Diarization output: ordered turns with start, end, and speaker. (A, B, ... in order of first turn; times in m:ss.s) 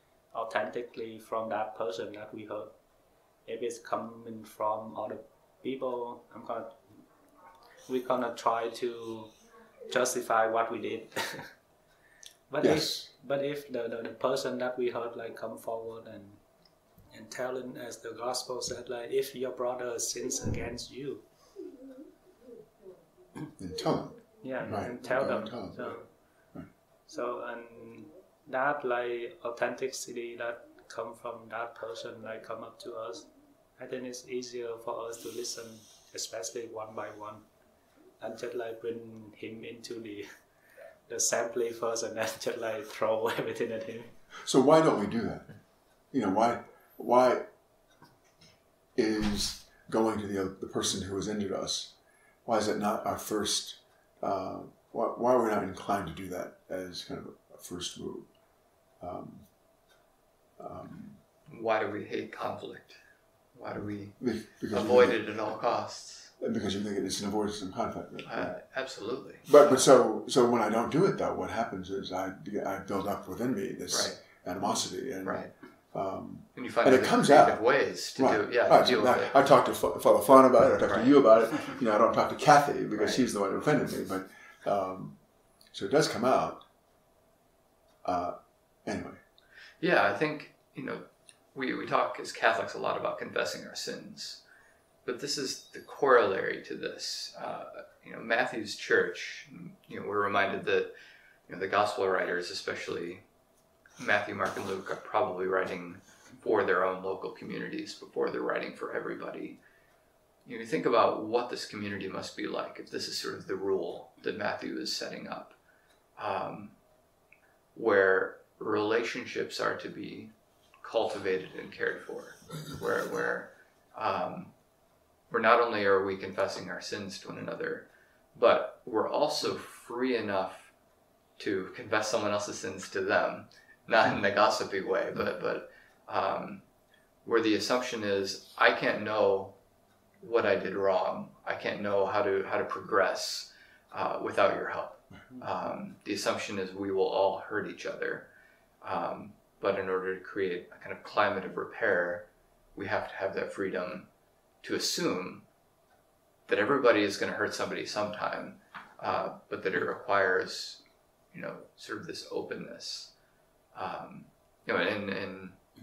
0:00.3-0:02.7 A
0:03.5-0:06.8 A
0:07.9-0:09.3 A
0:09.9-0:11.5 A
0:12.5-0:16.4 A
0:12.6-0:13.1 B
0:17.1-0:21.2 A
0:23.6-0:26.0 B
0:24.4-0:26.1 A
0:27.1-0:33.3 A
0:33.8-0:37.4 A
0:38.2-0:40.3 A
0:41.1-0:44.1 A
0:44.4-0:45.5 B
0:46.1-0:47.5 B
0:49.0-0:51.9 B
0:52.5-0:58.3 B
0:59.0-0:59.5 B
1:00.6-1:01.2 B
1:01.5-1:03.0 C
1:03.6-1:04.2 C
1:04.2-1:05.2 B
1:04.7-1:06.3 C
1:06.4-1:08.6 B
1:08.3-1:09.9 C
1:09.5-1:17.6 B
1:13.9-1:14.2 C
1:15.2-1:15.5 C
1:16.6-1:19.4 C
1:18.2-1:25.2 B
1:20.9-1:21.1 C
1:23.0-1:23.2 C
1:25.7-1:26.6 B
1:28.0-1:29.2 B
1:29.8-1:34.4 C
1:35.0-1:40.9 C
1:41.5-1:43.2 C
1:44.0-1:49.6 C
1:50.4-1:55.6 C
1:56.2-1:56.8 C
1:57.8-2:00.3 C
2:00.8-2:04.5 C
2:05.3-2:10.7 C
2:11.4-2:16.6 C
2:17.2-2:19.6 C
2:20.2-2:28.3 C
2:28.8-2:34.1 C
2:34.6-2:35.4 C
2:36.5-2:40.8 C
2:41.3-2:43.1 C
2:43.7-2:45.6 C